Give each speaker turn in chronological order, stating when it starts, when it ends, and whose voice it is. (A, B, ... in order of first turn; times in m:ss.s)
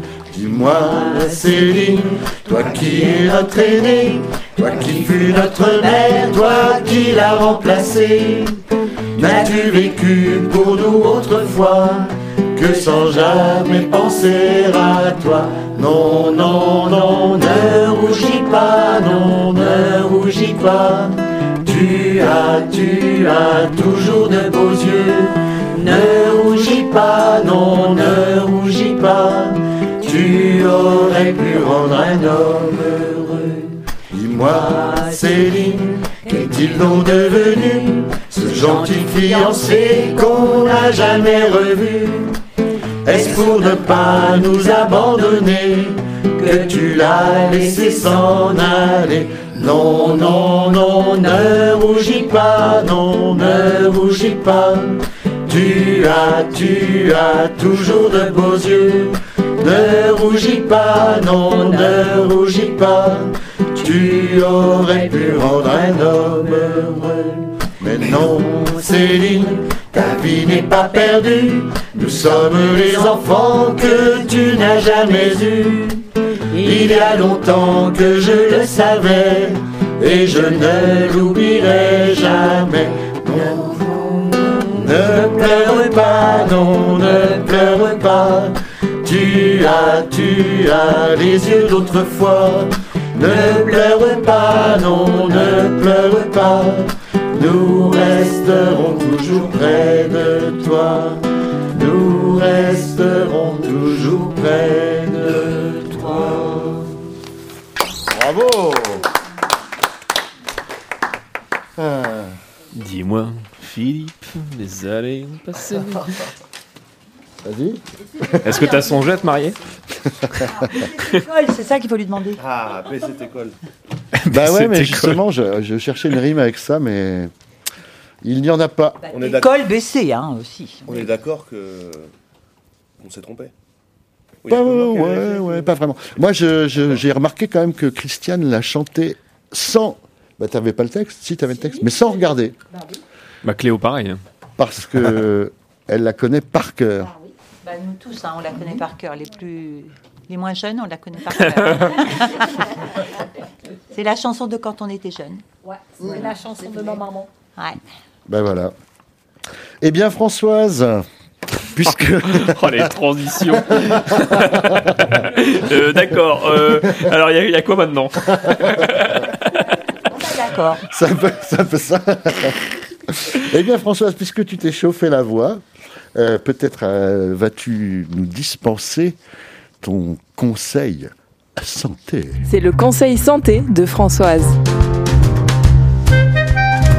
0:00.3-0:08.4 A
0:09.2-0:12.0 A
0:12.6-0:18.0 A
0:18.8-0:19.8 A
0:21.7-0:25.3 A
0:27.4-0:28.0 A
0:30.0-0:33.4 A
0:34.1-0:42.3 A
0:38.7-0:39.4 B
0:43.0-0:54.9 A
0:55.5-1:16.0 A
1:16.6-1:24.0 A
1:24.6-1:28.5 A
1:29.0-1:41.2 A
1:41.7-1:46.8 A
1:48.1-1:49.1 A
1:51.8-1:52.4 A
1:52.7-1:56.2 C
1:57.4-1:58.7 A
1:58.4-1:59.6 C
2:00.7-2:02.4 B
2:02.4-2:03.6 D
2:04.2-2:05.2 C
2:04.3-2:07.3 A
2:08.2-2:09.1 A
2:09.0-2:11.1 B
2:09.1-2:09.6 D
2:10.9-2:12.1 D
2:13.0-2:13.5 D
2:14.4-2:15.7 D
2:14.5-2:22.6 A
2:21.5-2:23.0 E
2:23.4-2:24.2 C
2:24.6-2:27.1 A
2:27.0-2:27.3 E
2:27.6-2:32.6 B
2:33.9-2:35.4 B
2:35.6-2:37.3 E
2:38.3-2:38.8 A
2:39.8-2:41.1 A
2:41.6-2:42.9 A
2:42.3-2:49.4 C
2:43.8-2:44.8 A
2:50.1-2:50.8 B
2:50.9-2:55.6 A
2:56.2-2:59.2 A
2:59.8-3:02.4 A
3:02.5-3:04.6 F